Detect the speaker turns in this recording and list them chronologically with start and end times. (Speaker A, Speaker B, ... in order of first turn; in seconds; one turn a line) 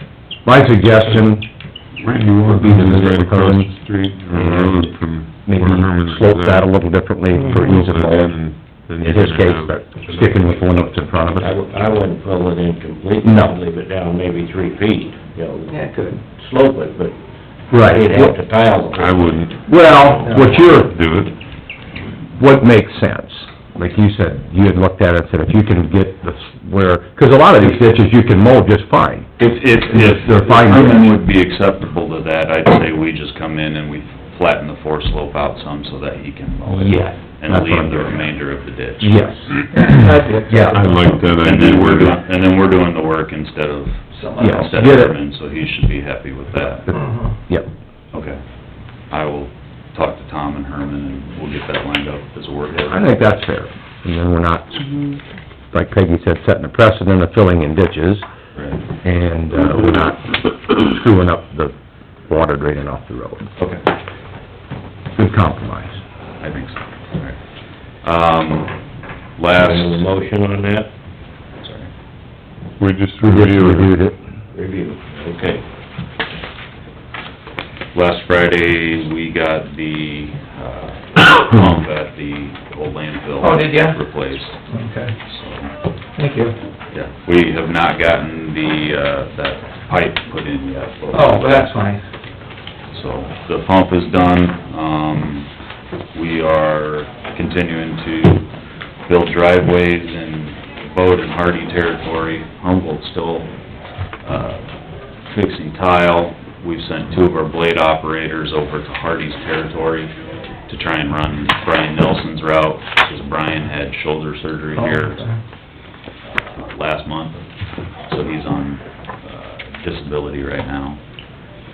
Speaker A: 0.5-1.5
Speaker B: 2.0-6.7
Speaker A: 2.5-3.7
Speaker A: 4.3-4.9
Speaker A: 5.4-8.4
Speaker B: 7.4-10.7
Speaker A: 9.0-11.6
Speaker C: 11.4-15.8
Speaker A: 13.2-13.6
Speaker D: 15.7-16.2
Speaker C: 16.3-17.1
Speaker A: 17.7-18.4
Speaker C: 17.8-19.5
Speaker B: 18.9-21.4
Speaker A: 19.6-21.0
Speaker A: 22.3-31.1
Speaker E: 29.4-39.2
Speaker A: 36.7-38.4
Speaker A: 39.0-39.8
Speaker D: 39.7-41.1
Speaker A: 40.5-40.9
Speaker B: 40.7-42.2
Speaker E: 41.4-46.9
Speaker D: 44.1-44.7
Speaker A: 44.4-45.2
Speaker A: 46.7-47.0
Speaker D: 46.9-47.4
Speaker E: 48.1-48.4
Speaker E: 49.1-53.1
Speaker A: 52.9-55.0
Speaker A: 55.7-58.2
Speaker E: 58.5-58.8
Speaker A: 59.0-61.8
Speaker A: 62.3-63.5
Speaker E: 63.6-63.8
Speaker A: 65.1-66.0
Speaker E: 66.4-67.4
Speaker E: 68.0-68.8
Speaker E: 69.4-70.1
Speaker C: 69.5-70.9
Speaker E: 71.6-71.9
Speaker B: 72.8-74.0
Speaker A: 73.2-74.2
Speaker C: 74.5-75.6
Speaker E: 77.9-84.6
Speaker D: 83.4-84.0
Speaker D: 84.7-85.2
Speaker E: 85.3-85.7
Speaker D: 86.2-86.6
Speaker E: 86.9-91.6
Speaker D: 91.1-92.1
Speaker E: 92.9-95.5
Speaker E: 96.1-98.5
Speaker E: 99.1-103.5
Speaker E: 104.2-104.7
Speaker E: 105.3-110.1
Speaker E: 110.7-115.2
Speaker D: 114.7-115.4
Speaker E: 116.3-117.4
Speaker E: 118.1-121.0